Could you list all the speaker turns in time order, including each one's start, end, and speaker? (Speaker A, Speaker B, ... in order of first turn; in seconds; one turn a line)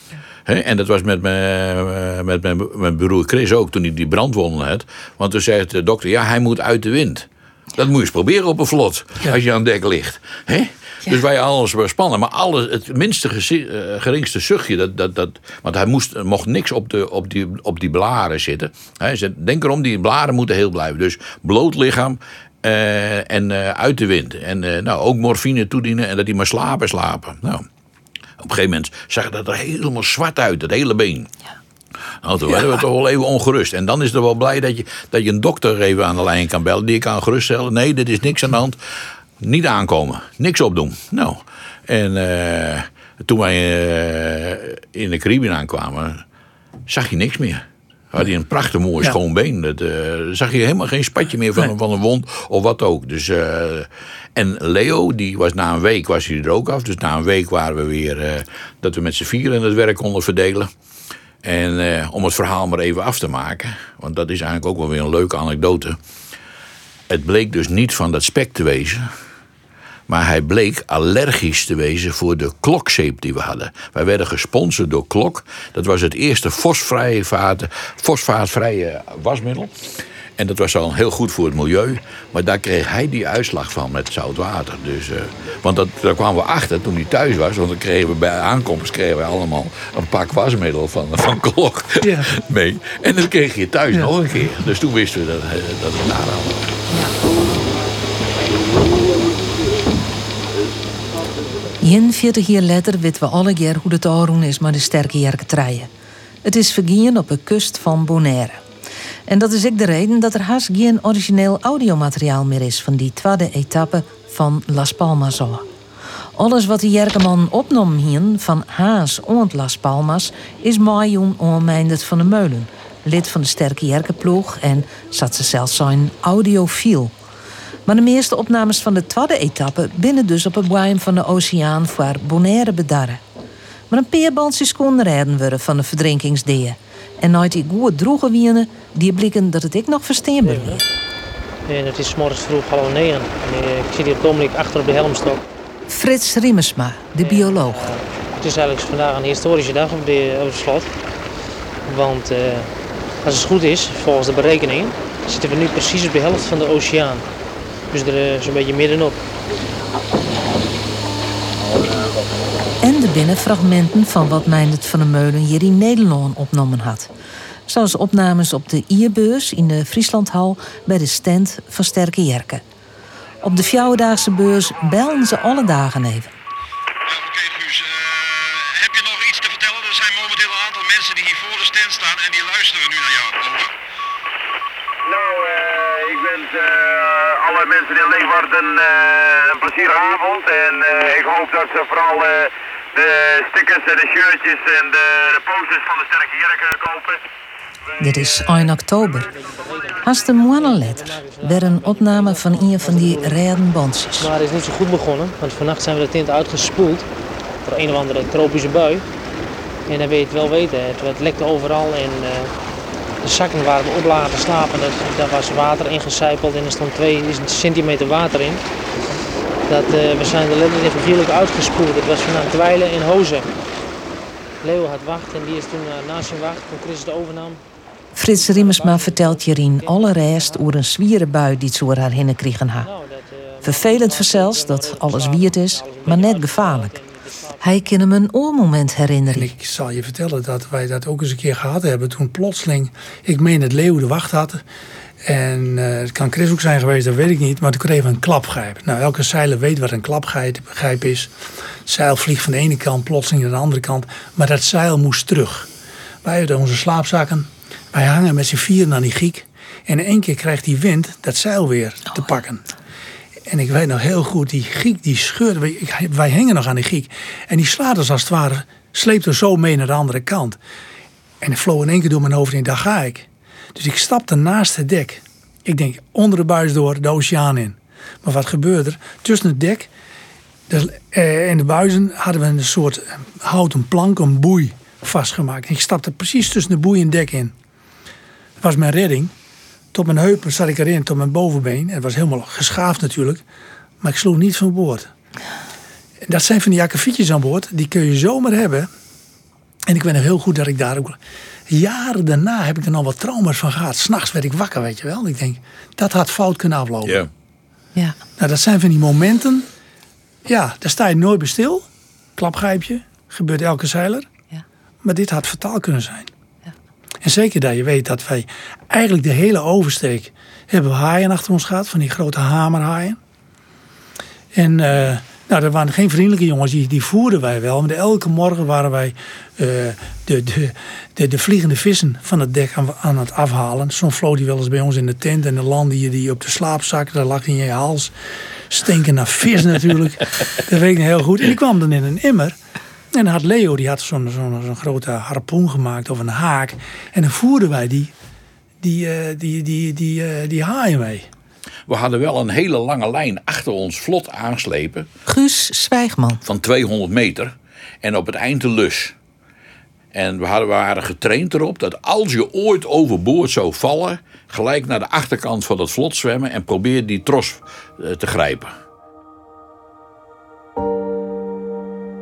Speaker A: 0.5-27.6
Speaker A: 28.4-31.3
Speaker A: 32.2-38.8
Speaker A: 39.4-46.2
Speaker A: 46.9-60.7
Speaker A: 61.4-66.0
Speaker A: 67.1-69.1
Speaker A: 70.1-79.7
Speaker A: 80.4-96.6
Speaker B: 92.0-92.3
Speaker C: 101.8-105.9
Speaker C: 106.4-108.6
Speaker C: 109.3-115.6
Speaker C: 116.3-127.1
Speaker C: 127.8-133.2
Speaker C: 133.9-140.8
Speaker D: 140.4-140.8
Speaker D: 141.7-145.4
Speaker C: 145.9-147.8
Speaker D: 147.2-150.9
Speaker D: 151.9-152.7
Speaker D: 153.2-157.2
Speaker D: 157.9-159.2
Speaker C: 162.8-167.1
Speaker C: 167.7-172.6
Speaker C: 173.4-176.3
Speaker E: 177.1-183.7
Speaker F: 185.1-197.2
Speaker C: 198.0-199.3
Speaker D: 199.2-203.4
Speaker C: 200.0-204.3
Speaker D: 204.2-207.1
Speaker D: 207.6-209.0
Speaker D: 209.9-212.5
Speaker D: 213.2-218.6
Speaker D: 219.7-223.5
Speaker D: 224.6-227.6
Speaker C: 228.1-232.9
Speaker D: 228.3-230.7
Speaker D: 232.8-237.7
Speaker C: 233.6-236.9
Speaker C: 237.6-239.5
Speaker B: 239.3-244.6
Speaker B: 245.2-251.3
Speaker B: 251.8-255.7
Speaker B: 256.2-262.6
Speaker B: 263.5-270.6
Speaker B: 271.4-279.9
Speaker B: 280.7-287.5
Speaker B: 288.6-289.3
Speaker B: 289.9-293.4
Speaker B: 294.0-295.1
Speaker B: 296.2-298.9
Speaker B: 299.9-301.2
Speaker B: 301.7-307.2
Speaker B: 308.4-309.7
Speaker B: 310.5-311.9
Speaker B: 312.4-314.3
Speaker B: 315.0-316.3
Speaker B: 317.2-323.2
Speaker B: 324.5-338.1
Speaker B: 338.7-342.6
Speaker B: 343.1-348.1
Speaker B: 348.8-351.3
Speaker A: 351.9-355.1
Speaker C: 355.3-356.4
Speaker A: 356.4-359.1
Speaker A: 360.1-368.7